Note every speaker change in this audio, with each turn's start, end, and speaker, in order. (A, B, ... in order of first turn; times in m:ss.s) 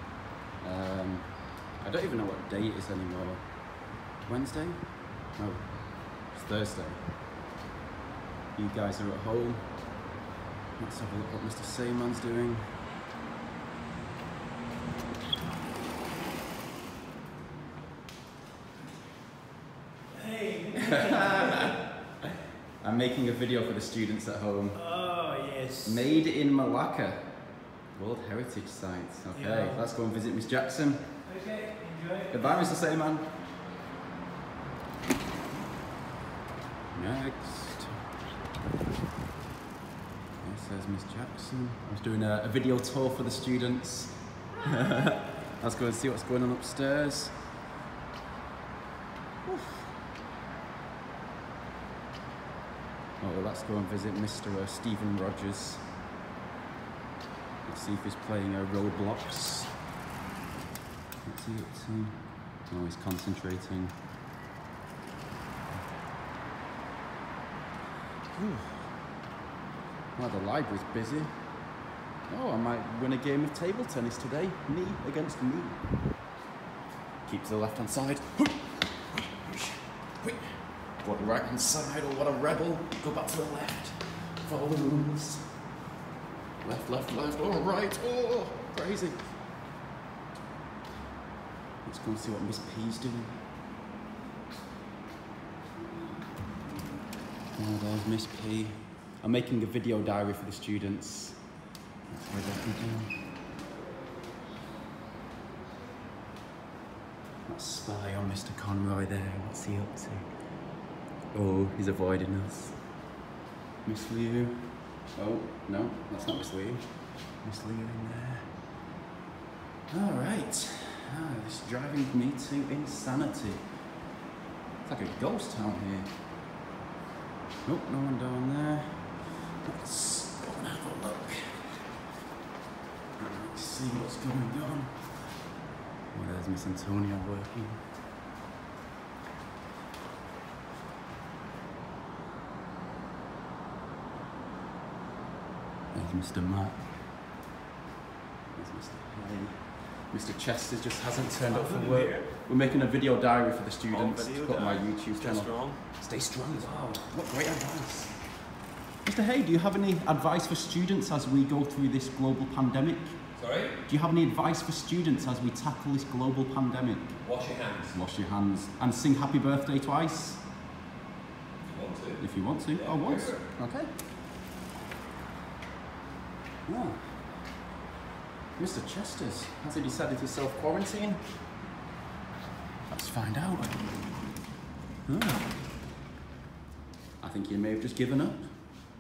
0:00.6-0:07.1 A
0:08.6-0:10.1 A
0:10.8-0:12.8 A
0:20.2-0:21.6 B
0:20.7-0:22.2 A
0:22.8-0:25.0 A
0:24.8-0:26.0 B
0:25.8-0:31.4 A
0:31.3-0:32.4 B
0:32.3-0:33.3 A
0:36.9-0:38.0 A
0:40.4-0:47.5 A
0:49.4-0:49.9 A
0:53.2-0:55.9 A
0:57.6-0:59.8 A
1:01.2-1:04.0 A
1:08.3-1:09.0 A
1:10.2-1:15.9 A
1:17.2-1:25.7 A
1:26.6-1:29.3 A
1:31.8-1:33.5 A
1:37.5-1:41.5 A
1:42.1-1:43.3 A
1:47.5-1:50.3 A
1:51.3-1:53.0 A
1:53.8-1:58.6 A
1:59.9-2:03.8 A
2:04.8-2:06.2 A
2:07.6-2:12.0 A
2:13.2-2:15.5 A
2:16.1-2:17.9 A
2:25.9-2:27.3 A
2:28.5-2:38.4 A
2:31.5-2:32.2 B
2:33.9-2:35.8 C
2:36.5-2:37.0 C
2:39.0-2:50.4 A
2:43.4-2:43.8 C
2:47.2-2:48.0 C
2:51.6-2:53.5 C
2:52.2-2:54.0 A
2:56.7-2:57.5 A
2:58.6-3:01.5 A
3:02.9-3:04.1 A
3:05.1-3:05.6 A
3:07.2-3:08.6 A